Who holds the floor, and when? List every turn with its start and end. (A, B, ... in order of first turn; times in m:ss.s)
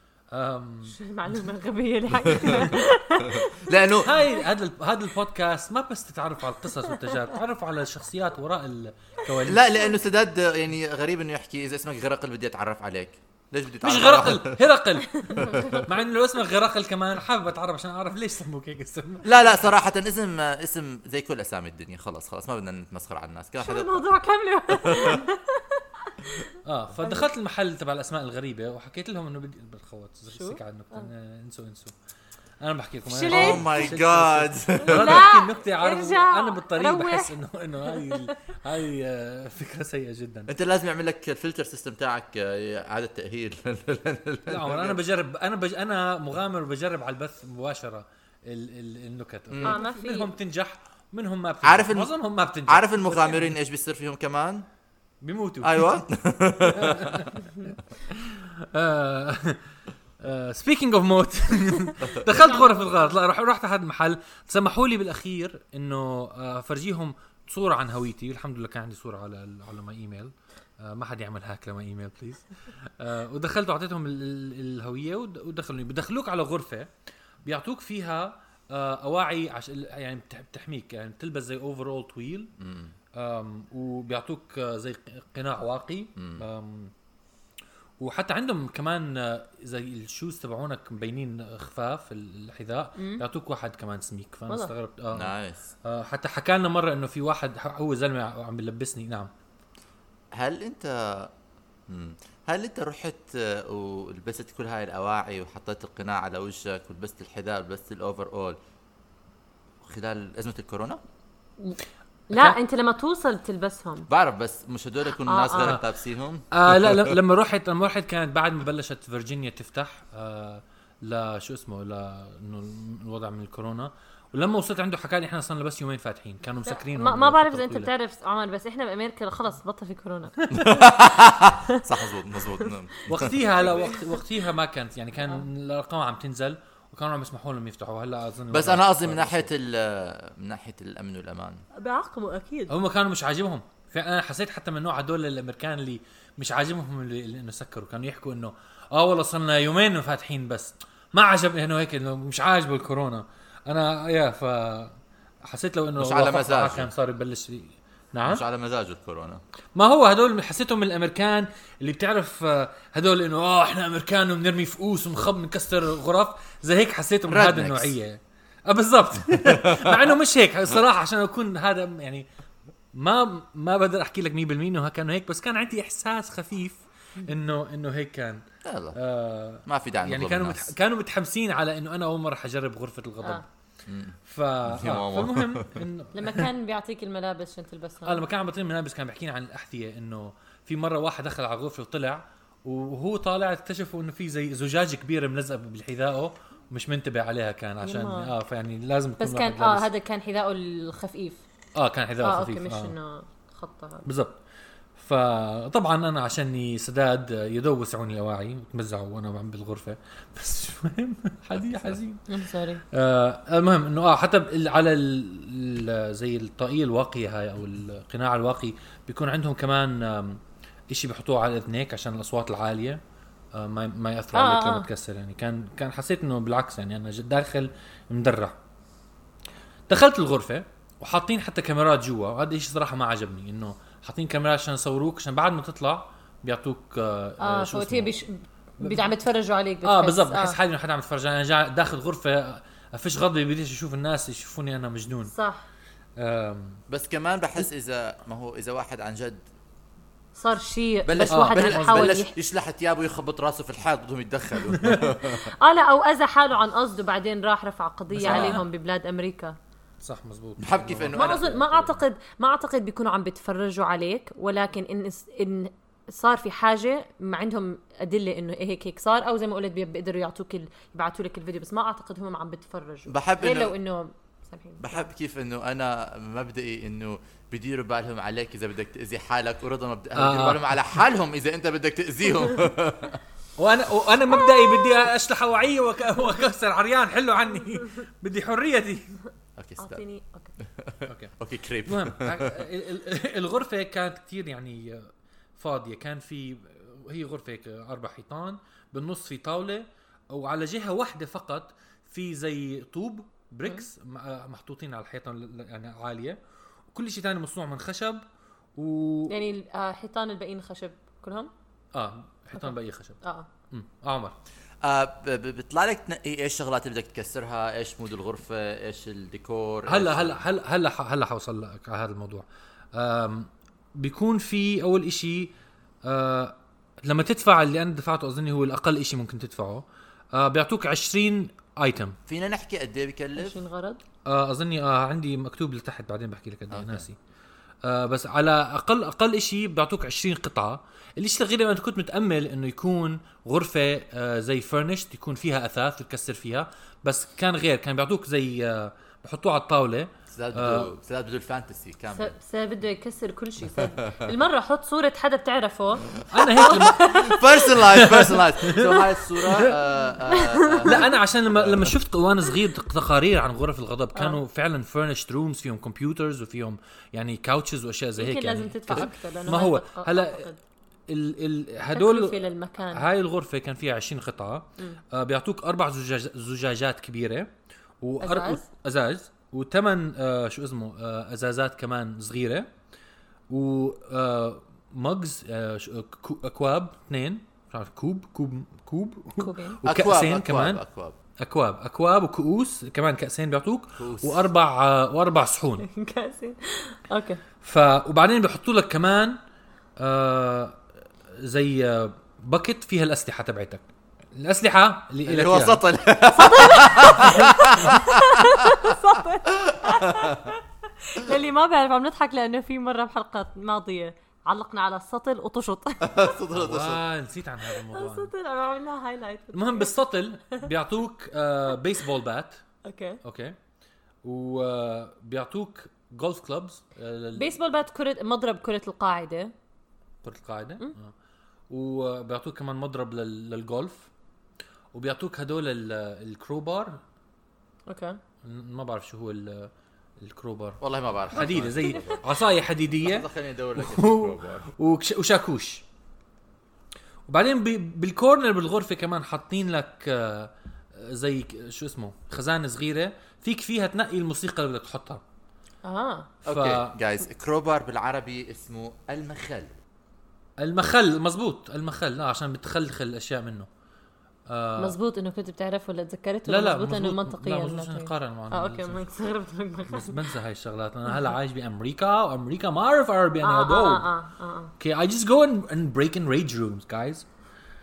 0:00.3-0:01.0 A
0:00.9-0:04.4 B
0:02.3-0:04.2 C
0:04.0-0:09.8 A
0:06.8-0:07.2 B
0:09.4-0:14.6 C
0:13.8-0:19.7 A
0:15.1-0:15.9 B
0:15.4-0:15.8 C
0:19.2-0:24.0 C
0:23.6-0:26.4 B
0:24.8-0:25.2 C
0:26.6-0:31.9 A
0:30.3-0:31.1 B
0:32.6-0:40.5 A
0:33.0-0:33.7 B
0:33.3-0:35.3 C
0:34.8-0:37.3 B
0:37.8-0:38.3 B
0:40.5-0:45.0 C
0:44.5-0:53.4 A
0:49.5-0:49.8 C
0:49.6-0:50.3 B
0:51.6-0:52.1 C
0:52.7-0:54.6 C
0:55.2-0:56.0 A
0:55.6-0:57.3 C
0:56.7-0:59.6 A
1:00.2-1:16.9 A
1:02.1-1:03.2 B
1:17.4-1:22.5 A
1:22.6-1:22.9 C
1:23.1-1:26.9 A
1:26.2-1:26.4 C
1:28.0-1:35.3 A
1:33.0-1:33.2 B
1:35.1-1:35.7 C
1:35.8-1:39.3 A
1:40.3-1:41.3 C
1:41.9-1:48.6 C
1:49.8-1:51.0 C
1:52.3-1:54.1 B
1:52.3-1:52.6 A
1:54.1-1:57.2 C
1:55.2-1:55.8 B
1:55.6-1:55.8 A
1:56.5-2:07.9 A
2:06.6-2:10.4 B
2:10.4-2:10.7 A
2:10.5-2:13.7 C
2:13.0-2:19.5 A
2:18.5-2:21.6 C
2:21.8-2:22.7 B
2:22.7-2:34.9 A
2:35.5-2:38.4 A
2:36.0-2:36.9 C
2:38.2-2:39.4 C
2:39.7-2:52.2 A
2:47.3-2:47.9 C
2:49.4-2:50.1 C
2:52.9-2:58.4 A
2:58.6-2:59.0 C
2:58.9-3:03.4 A
2:59.6-3:00.7 C
3:03.8-3:05.8 C
3:04.3-3:06.5 A
3:06.1-3:08.2 B
3:08.0-3:19.9 A
3:17.8-3:18.3 B
3:19.2-3:21.4 B
3:21.8-3:22.9 A
3:22.2-3:24.0 B
3:24.0-3:24.4 A
3:25.0-3:32.2 A
3:32.3-3:32.8 B
3:32.9-3:40.4 A
3:40.9-3:43.0 A
3:43.5-3:48.6 A
3:44.3-3:44.9 B
3:49.9-3:58.1 A
3:57.4-4:00.6 B
3:58.8-3:59.1 A
3:59.8-4:05.3 A
4:05.2-4:05.7 B
4:06.2-4:06.8 A
4:06.9-4:09.4 C
4:10.3-4:12.3 B
4:11.0-4:15.5 C
4:11.3-4:12.2 A
4:14.7-4:15.1 A
4:15.4-4:19.6 B
4:18.1-4:18.6 A
4:18.2-4:18.6 C
4:20.0-4:22.0 A
4:20.6-4:21.6 C
4:21.1-4:35.0 B
4:33.1-4:33.7 C
4:34.8-4:43.2 C
4:40.2-4:40.7 A
4:43.6-4:49.2 A
4:44.5-4:44.9 B
4:49.6-4:50.0 C
4:49.8-4:50.5 B
4:50.6-4:52.6 C
4:51.1-4:51.3 A
4:51.8-5:06.4 A
5:06.9-5:08.2 A
5:08.8-5:09.3 A
5:09.3-5:11.5 B
5:11.9-5:13.2 A
5:12.6-5:13.5 B
5:13.7-5:14.3 A
5:14.8-5:20.4 C
5:19.9-5:25.5 A
5:26.0-5:32.2 A
5:32.3-5:33.6 C
5:33.4-5:34.0 B
5:34.3-5:37.2 A
5:36.7-5:37.0 C
5:37.8-5:50.9 A
5:50.3-5:52.3 C
5:52.1-5:57.7 B
5:53.8-5:54.3 C
5:56.2-6:02.0 C
5:56.3-5:57.1 A
5:57.8-5:59.7 A
6:00.3-6:01.1 B
6:00.8-6:10.5 A
6:08.2-6:10.6 B
6:11.1-6:12.4 A
6:11.9-6:13.0 B
6:12.9-6:17.5 A
6:18.0-6:22.7 A
6:18.2-6:18.6 B
6:23.5-6:30.8 A
6:29.4-6:29.8 B
6:29.8-6:31.2 C
6:31.4-6:35.8 A
6:34.0-6:34.5 C
6:35.8-6:37.4 B
6:37.6-6:39.4 A
6:40.0-6:40.8 A
6:41.4-6:43.8 A
6:44.3-6:45.8 A
6:45.2-6:48.9 C
6:46.3-6:56.3 B
6:49.5-6:50.5 C
6:56.0-6:57.0 C
6:56.5-6:58.3 A
6:57.9-6:59.9 B
6:59.5-7:02.6 A
7:02.8-7:03.2 B
7:03.2-7:03.6 A
7:04.2-7:07.5 A
7:07.4-7:09.5 B
7:10.2-7:11.1 A
7:11.7-7:14.1 A
7:14.9-7:17.0 A
7:17.9-7:18.2 B
7:18.4-7:20.8 A
7:20.8-7:22.2 C
7:21.3-7:25.8 A
7:21.4-7:22.2 B
7:23.0-7:24.7 C
7:27.3-7:35.2 A
7:35.8-7:36.3 B
7:36.4-7:36.9 A
7:36.4-7:39.7 C
7:40.6-7:43.7 A
7:44.5-7:45.0 A
7:44.8-7:50.2 B
7:46.5-7:49.1 A
7:49.9-7:54.1 A
7:53.4-7:54.7 B
7:54.8-7:57.2 A